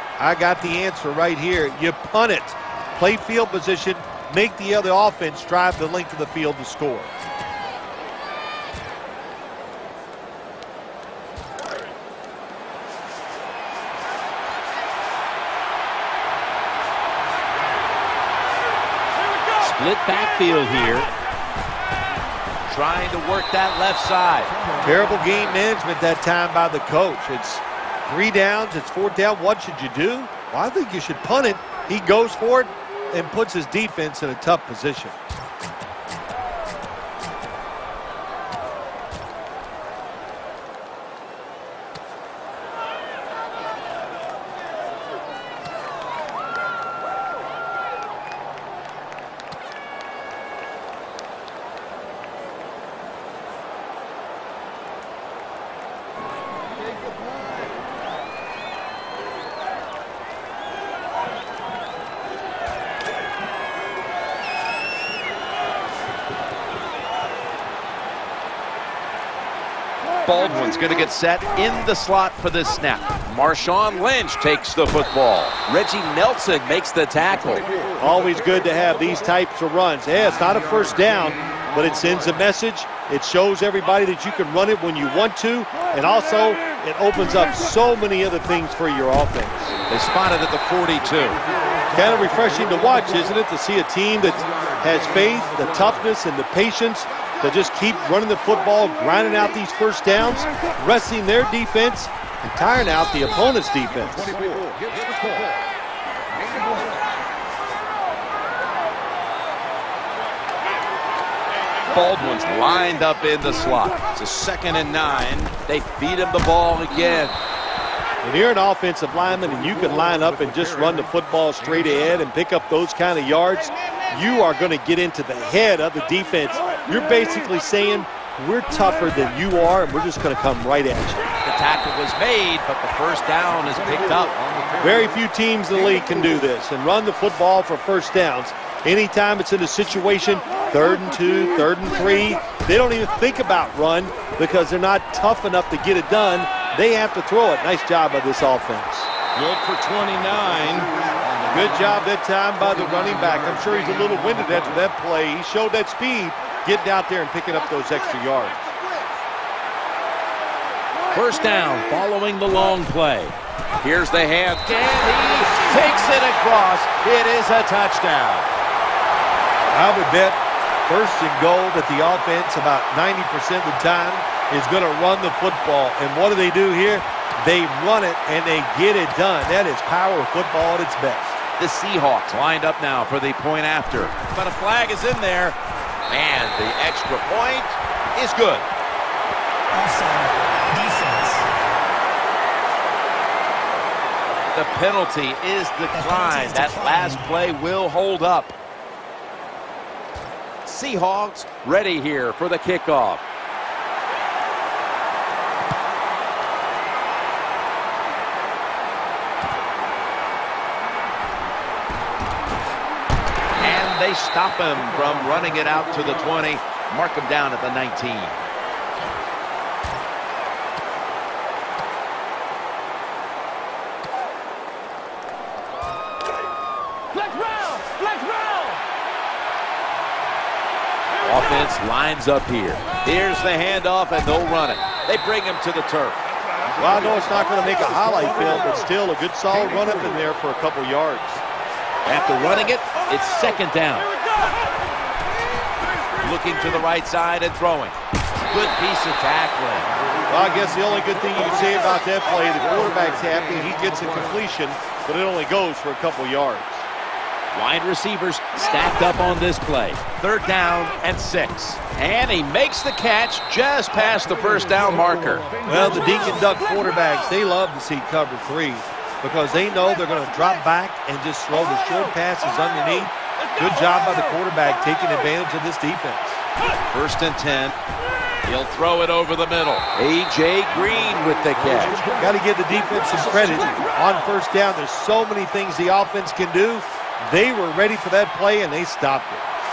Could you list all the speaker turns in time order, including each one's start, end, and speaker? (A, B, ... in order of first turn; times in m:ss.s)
0:00.2-0:07.1 A
0:19.6-0:21.1 B
0:22.7-0:24.5 B
0:24.8-0:35.3 A
1:10.2-1:17.6 B
1:18.0-1:29.8 A
1:29.9-1:31.4 B
1:31.9-1:44.4 A
1:51.9-1:57.4 B
1:58.2-2:11.2 A
2:11.4-2:14.8 B
2:14.8-2:29.1 A
2:29.3-2:30.9 B
2:31.5-2:38.7 A
2:41.1-2:48.5 B
2:49.7-3:01.4 A
3:01.6-3:05.6 B
3:06.1-3:08.7 B
3:09.7-3:11.5 C
3:14.5-3:18.5 B
3:15.9-3:17.3 C
3:20.6-3:23.2 B
3:33.6-3:38.4 B
3:51.2-3:56.2 B
3:56.8-4:01.4 A
4:02.0-4:04.1 B
4:06.2-4:08.0 B
4:08.5-4:09.9 B
4:10.3-4:16.9 A
4:17.5-4:25.4 B
4:25.7-4:36.4 A
4:36.9-4:37.8 B
4:38.4-4:42.0 B
4:42.2-4:49.4 A